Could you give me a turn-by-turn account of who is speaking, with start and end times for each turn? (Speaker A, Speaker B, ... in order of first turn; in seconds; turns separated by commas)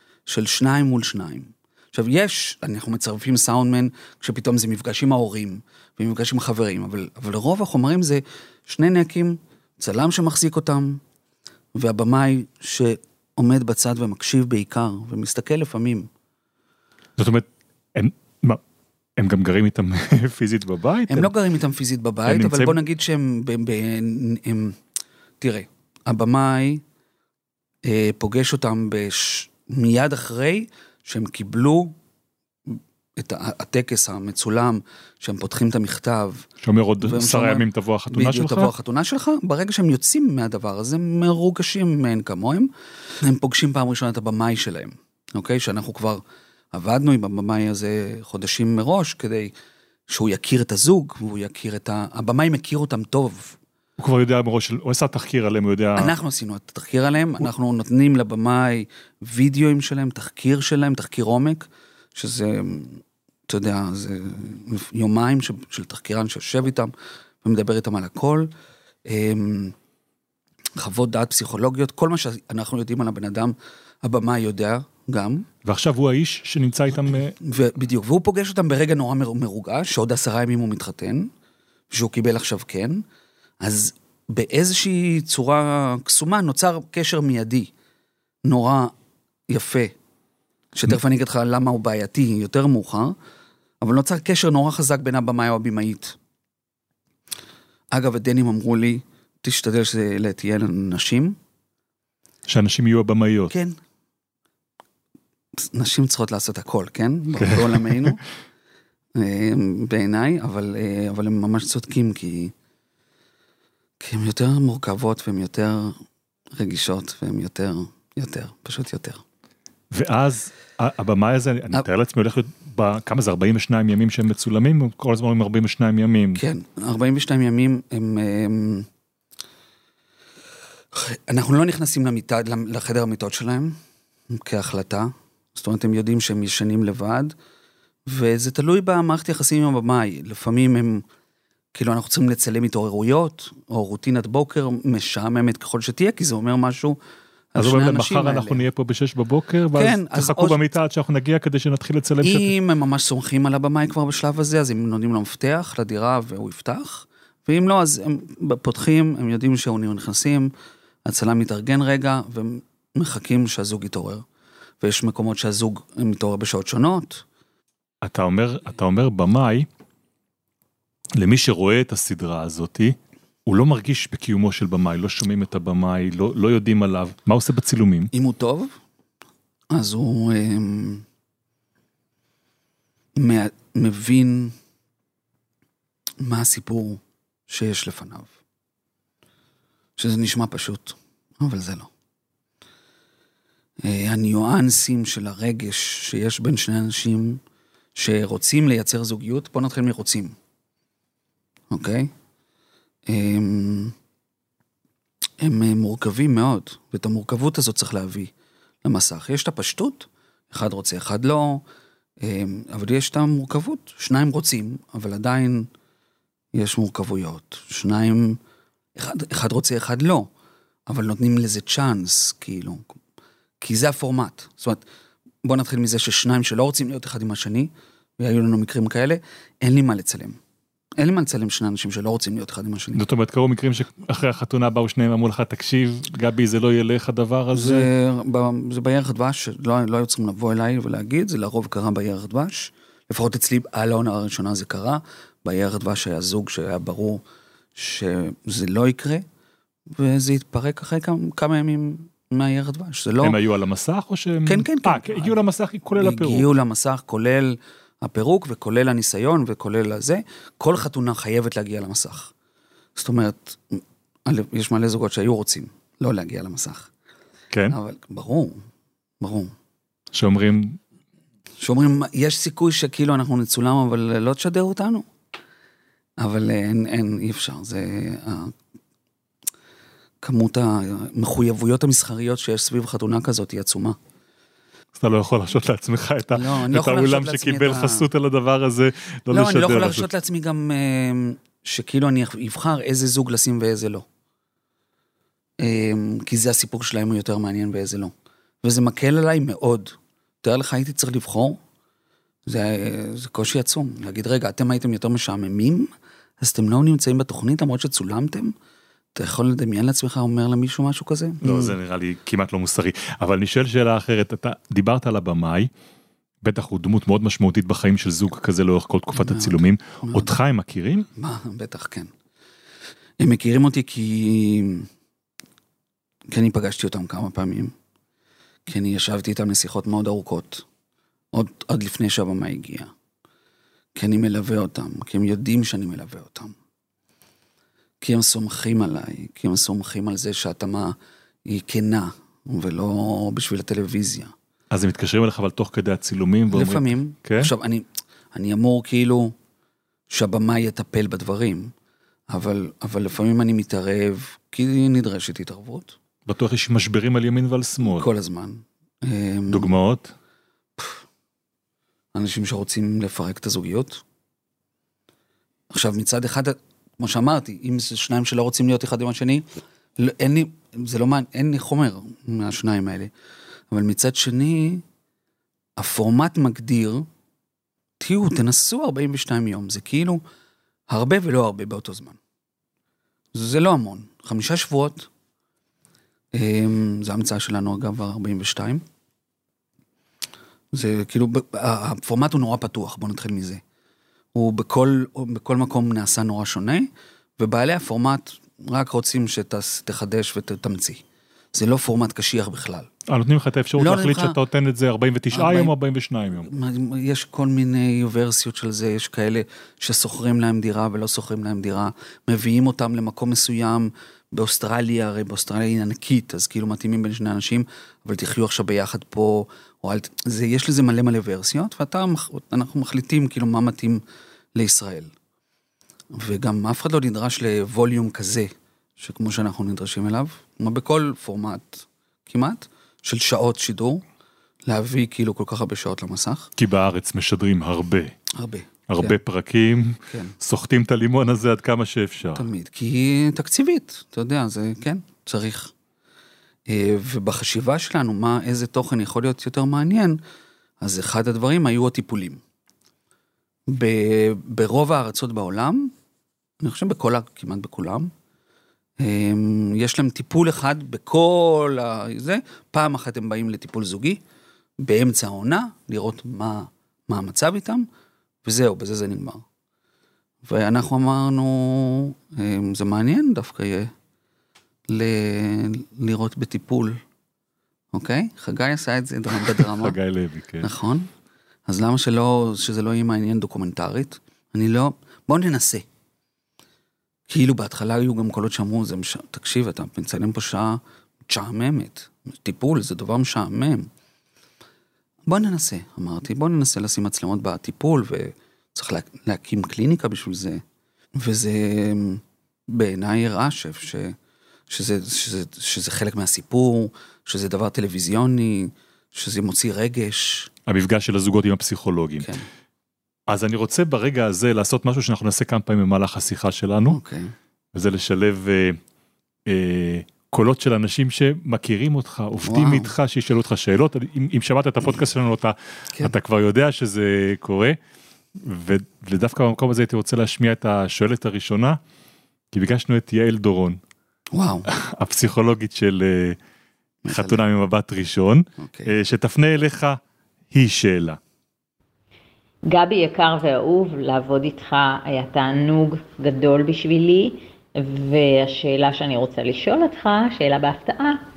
Speaker A: 0.3-11.0, Speaker A: 11.7-16.1, Speaker B: 17.2-18.6, Speaker B: 19.2-21.3, Speaker A: 21.1-24.8, Speaker B: 22.2-22.8, Speaker A: 25.4-26.8, Speaker A: 27.8-31.9, Speaker A: 32.7-36.5, Speaker B: 36.6-38.7, Speaker A: 37.0-42.7, Speaker A: 43.2-49.5, Speaker A: 50.1-53.6, Speaker B: 54.0-56.1, Speaker A: 56.0-66.9, Speaker A: 67.4-68.5, Speaker A: 69.1-69.7, Speaker A: 70.8-75.5, Speaker B: 75.6-77.3, Speaker A: 77.4-81.3, Speaker A: 81.9-83.0, Speaker A: 83.6-87.7, Speaker A: 88.4-88.9, Speaker A: 89.5-89.9, Speaker A: 90.7-93.2, Speaker A: 93.8-96.2, Speaker A: 97.9-101.4, Speaker B: 102.5-103.5, Speaker A: 103.5-103.8, Speaker A: 105.6-108.2, Speaker B: 107.4-108.1, Speaker A: 109.1-112.5, Speaker A: 114.0-116.0, Speaker A: 116.5-119.2, Speaker B: 119.9-126.4, Speaker A: 126.3-128.9, Speaker A: 130.9-133.8, Speaker A: 134.3-137.3, Speaker A: 138.1-141.0, Speaker A: 141.7-147.0, Speaker A: 147.5-148.6, Speaker B: 147.6-152.5, Speaker A: 149.8-150.6, Speaker A: 152.2-160.5, Speaker A: 161.1-164.2, Speaker A: 164.8-167.2, Speaker B: 168.0-169.7, Speaker B: 171.2-178.1, Speaker A: 178.1-178.7, Speaker A: 179.7-181.0, Speaker A: 183.2-184.5, Speaker A: 186.2-188.3, Speaker A: 190.0-191.9, Speaker A: 193.8-197.4, Speaker A: 197.9-200.3, Speaker A: 201.7-202.1, Speaker A: 203.1-203.9, Speaker A: 205.4-208.3, Speaker A: 208.8-211.6, Speaker A: 212.2-215.7, Speaker A: 216.5-218.4, Speaker A: 218.9-220.3, Speaker A: 220.9-222.9, Speaker A: 223.6-224.8, Speaker A: 225.4-230.4, Speaker A: 231.0-233.0, Speaker B: 232.9-237.9, Speaker A: 237.5-247.2, Speaker A: 247.8-249.2, Speaker A: 249.9-253.4, Speaker B: 253.2-256.5, Speaker A: 254.4-255.4, Speaker A: 256.0-262.3, Speaker A: 262.9-266.9, Speaker A: 267.7-268.6, Speaker A: 269.2-269.5, Speaker B: 270.1-270.8, Speaker A: 271.6-275.1, Speaker A: 276.2-278.6, Speaker A: 280.2-284.0, Speaker B: 285.0-290.1, Speaker A: 286.3-288.1, Speaker A: 289.3-294.0, Speaker A: 295.6-301.6, Speaker A: 302.5-308.5, Speaker A: 309.1-311.7, Speaker B: 311.4-315.7, Speaker B: 316.4-321.1, Speaker A: 319.1-320.3, Speaker A: 321.1-322.1, Speaker A: 323.2-324.9, Speaker A: 326.3-327.7, Speaker A: 328.7-330.6, Speaker A: 331.3-332.9, Speaker A: 333.9-336.5, Speaker A: 338.0-344.3, Speaker B: 344.7-347.5, Speaker A: 346.5-349.3, Speaker A: 350.1-351.7, Speaker A: 352.3-355.9, Speaker B: 356.2-358.1, Speaker A: 357.8-359.7, Speaker B: 359.5-360.1, Speaker A: 360.8-361.0, Speaker A: 362.1-364.0, Speaker A: 365.7-369.4, Speaker A: 370.0-373.1, Speaker A: 373.7-374.8, Speaker A: 375.8-377.1, Speaker A: 378.0-380.2, Speaker A: 380.9-382.2, Speaker A: 383.3-385.1, Speaker A: 386.3-388.8, Speaker A: 390.7-393.6, Speaker A: 394.3-401.0, Speaker A: 401.5-402.9, Speaker B: 403.1-406.5, Speaker A: 403.8-404.4, Speaker A: 405.3-405.7, Speaker A: 406.4-424.0, Speaker A: 424.5-425.1, Speaker A: 426.1-434.0, Speaker A: 434.6-436.5, Speaker B: 436.6-438.1, Speaker A: 438.3-439.1, Speaker B: 438.9-442.4, Speaker A: 440.1-440.3, Speaker A: 442.3-445.7, Speaker A: 446.7-450.2, Speaker A: 450.8-452.4, Speaker A: 453.7-455.9, Speaker A: 456.6-458.1, Speaker A: 459.0-464.2, Speaker A: 464.8-467.9, Speaker A: 468.4-469.4, Speaker A: 470.4-473.9, Speaker A: 474.9-477.0, Speaker A: 477.9-479.9, Speaker B: 479.4-480.7, Speaker A: 480.6-481.1, Speaker A: 481.7-485.8, Speaker A: 487.3-493.9, Speaker A: 495.3-500.6, Speaker A: 501.1-504.1, Speaker A: 504.7-510.5, Speaker B: 510.7-512.3, Speaker A: 512.2-512.5, Speaker B: 513.3-517.0, Speaker A: 516.9-517.3, Speaker B: 517.7-518.8, Speaker B: 519.5-527.8, Speaker A: 522.4-522.9, Speaker B: 528.4-531.8, Speaker B: 532.5-533.8, Speaker A: 534.3-534.7, Speaker B: 534.7-536.4, Speaker A: 537.0-537.4, Speaker B: 537.1-540.0, Speaker A: 538.6-538.9, Speaker B: 540.5-541.2, Speaker C: 542.7-551.2